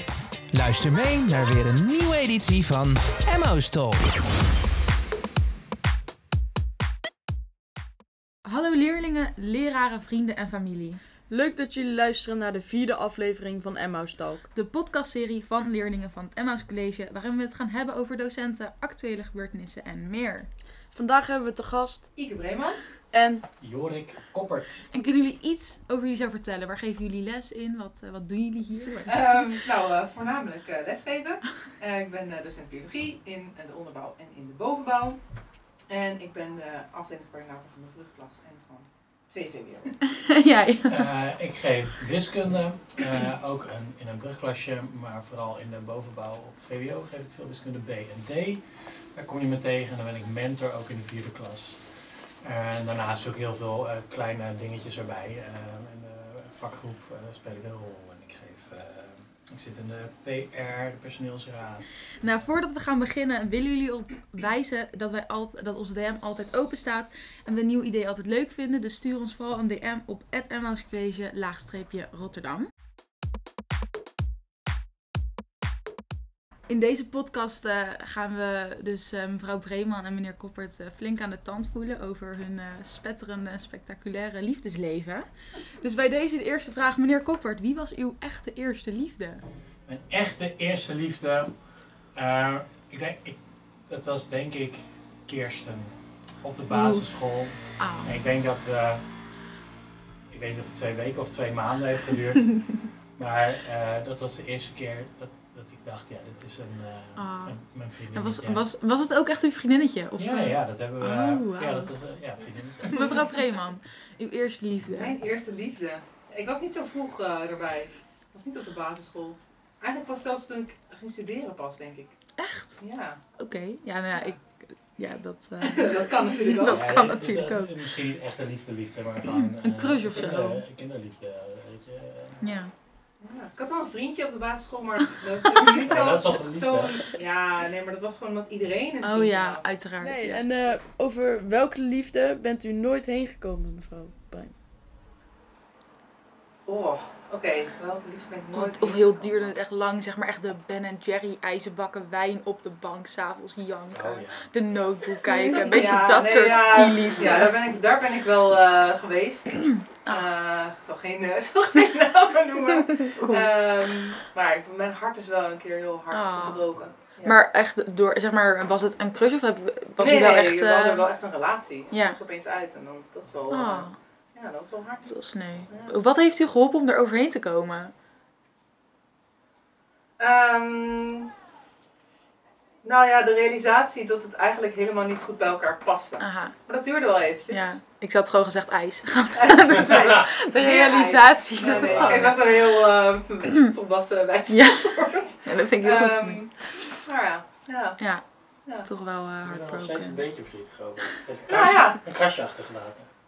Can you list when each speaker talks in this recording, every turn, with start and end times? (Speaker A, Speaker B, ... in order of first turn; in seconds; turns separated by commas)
Speaker A: 0.5-4.2, Speaker B: 8.4-11.0, Speaker C: 11.3-14.4, Speaker B: 14.5-20.5, Speaker C: 20.9-22.1, Speaker D: 22.1-22.8, Speaker C: 23.1-23.4, Speaker E: 23.6-24.9, Speaker B: 24.9-29.4, Speaker D: 29.1-35.2, Speaker D: 35.9-40.0, Speaker B: 40.1-41.1, Speaker E: 40.9-48.6, Speaker E: 49.1-51.8, Speaker E: 52.4-61.9, Speaker B: 62.2-72.7, Speaker B: 76.7-85.3, Speaker B: 85.8-89.4, Speaker E: 89.9-91.5, Speaker E: 92.1-99.0, Speaker B: 96.7-97.0, Speaker B: 97.8-98.1, Speaker E: 100.3-108.6, Speaker B: 107.2-107.6, Speaker B: 108.1-111.9, Speaker E: 110.2-113.2, Speaker B: 112.9-115.2, Speaker D: 114.9-122.1, Speaker B: 122.4-122.8, Speaker D: 122.8-123.2, Speaker B: 123.4-124.4, Speaker B: 125.0-127.8, Speaker D: 125.6-126.8, Speaker E: 126.6-132.4, Speaker B: 129.3-130.6, Speaker B: 132.4-132.7, Speaker D: 133.2-139.7, Speaker E: 135.8-137.0, Speaker B: 139.0-140.4, Speaker C: 140.0-144.5, Speaker D: 146.7-149.1, Speaker B: 148.5-157.6, Speaker E: 153.9-154.8, Speaker D: 155.6-167.4, Speaker B: 159.7-160.2, Speaker B: 162.9-163.5, Speaker B: 166.1-166.6, Speaker B: 167.2-171.0, Speaker D: 170.0-175.1, Speaker B: 171.9-172.2, Speaker B: 173.5-173.9, Speaker B: 175.1-177.9, Speaker D: 175.7-175.9, Speaker D: 180.2-181.3, Speaker D: 182.8-187.7, Speaker B: 186.2-186.5, Speaker B: 187.5-192.4, Speaker D: 189.4-198.0, Speaker E: 189.5-190.3, Speaker E: 191.6-192.4, Speaker B: 194.5-196.4, Speaker B: 198.8-200.2, Speaker E: 199.4-203.1, Speaker D: 201.5-202.0